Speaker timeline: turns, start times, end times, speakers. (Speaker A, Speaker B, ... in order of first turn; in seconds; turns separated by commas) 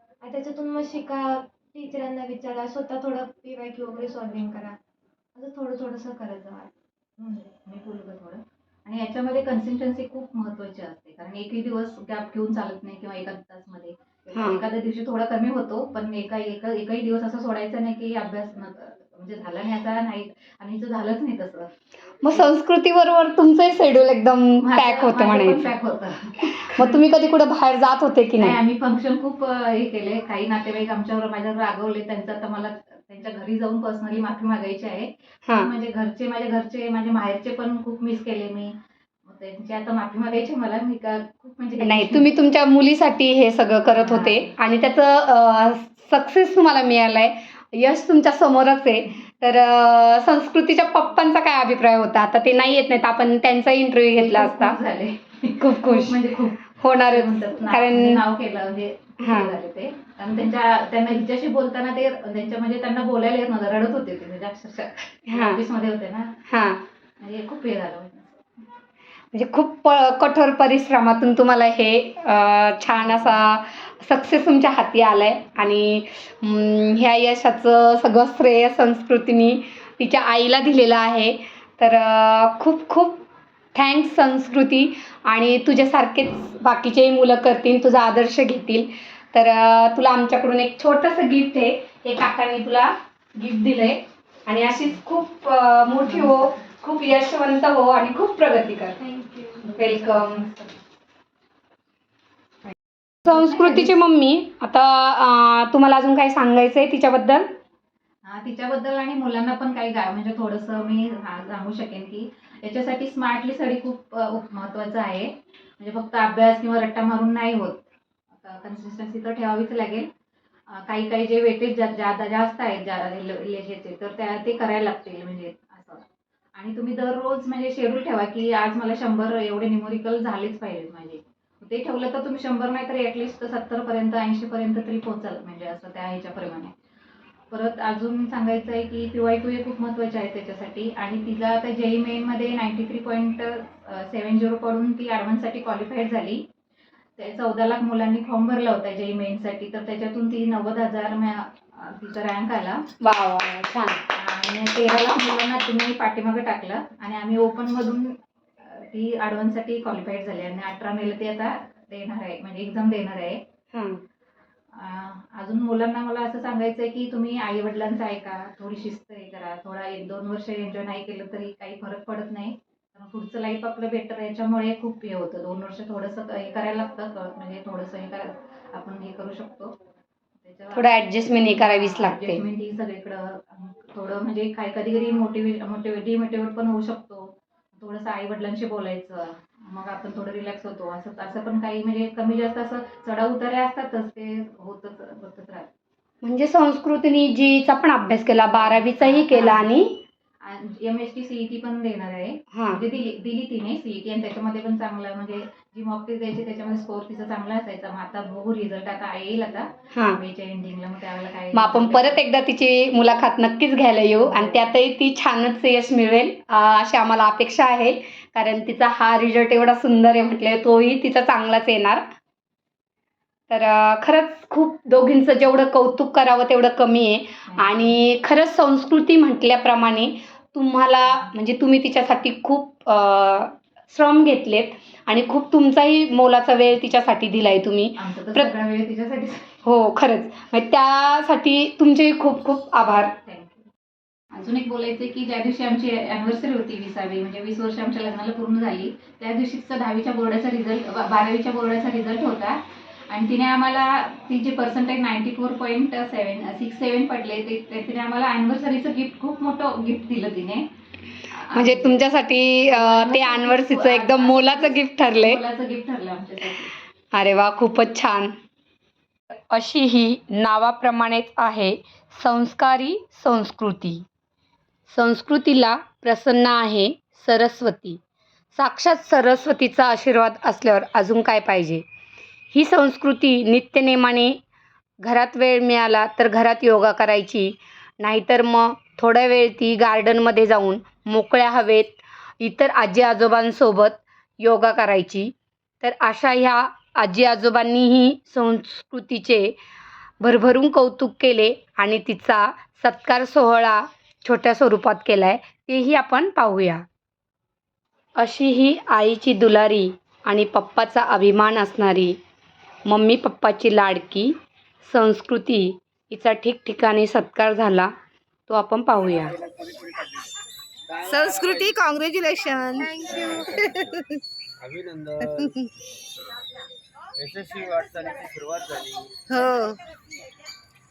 Speaker A: 0.2-4.8, Speaker A: 5.3-7.5, Speaker B: 7.5-21.7, Speaker C: 14.3-14.6, Speaker C: 22.2-25.7, Speaker B: 24.6-27.0, Speaker C: 26.4-28.6, Speaker B: 28.4-42.2, Speaker C: 41.8-54.8, Speaker B: 43.9-44.5, Speaker B: 54.1-66.4, Speaker C: 55.6-58.2, Speaker C: 59.2-59.5, Speaker C: 65.3-65.6, Speaker C: 66.5-66.8, Speaker B: 67.2-68.4, Speaker C: 69.3-83.2, Speaker B: 72.9-73.4, Speaker C: 83.7-99.0, Speaker B: 96.1-96.6, Speaker A: 99.0-99.7, Speaker B: 99.6-100.7, Speaker C: 99.7-100.4, Speaker C: 103.2-107.5, Speaker B: 108.2-117.8, Speaker B: 118.4-120.1, Speaker B: 120.7-126.0, Speaker B: 126.6-136.7, Speaker B: 137.5-146.4, Speaker B: 147.2-152.9, Speaker C: 153.0-154.0, Speaker B: 154.1-163.4, Speaker C: 163.7-164.0, Speaker B: 164.7-179.8, Speaker B: 180.4-195.7, Speaker C: 180.7-182.4, Speaker C: 196.2-200.0, Speaker B: 198.5-199.6, Speaker B: 200.4-212.2, Speaker C: 202.5-202.8, Speaker C: 209.9-210.2, Speaker C: 211.5-222.1, Speaker B: 214.2-214.6, Speaker C: 223.5-238.5, Speaker B: 227.5-227.9, Speaker B: 238.0-239.6, Speaker C: 239.6-243.1, Speaker B: 243.2-243.7, Speaker B: 244.3-260.7, Speaker B: 261.3-262.0, Speaker C: 261.5-265.4, Speaker B: 262.6-266.7, Speaker C: 267.1-268.4, Speaker C: 269.5-274.0, Speaker C: 274.9-278.0, Speaker C: 278.5-281.8, Speaker C: 282.5-284.4, Speaker C: 285.0-299.5, Speaker C: 300.2-306.9, Speaker C: 308.2-312.2, Speaker C: 312.9-317.9, Speaker C: 318.5-319.3, Speaker D: 320.9-321.8, Speaker E: 321.0-324.1, Speaker D: 324.6-325.5, Speaker E: 325.2-325.7, Speaker D: 327.2-329.1, Speaker E: 329.3-329.8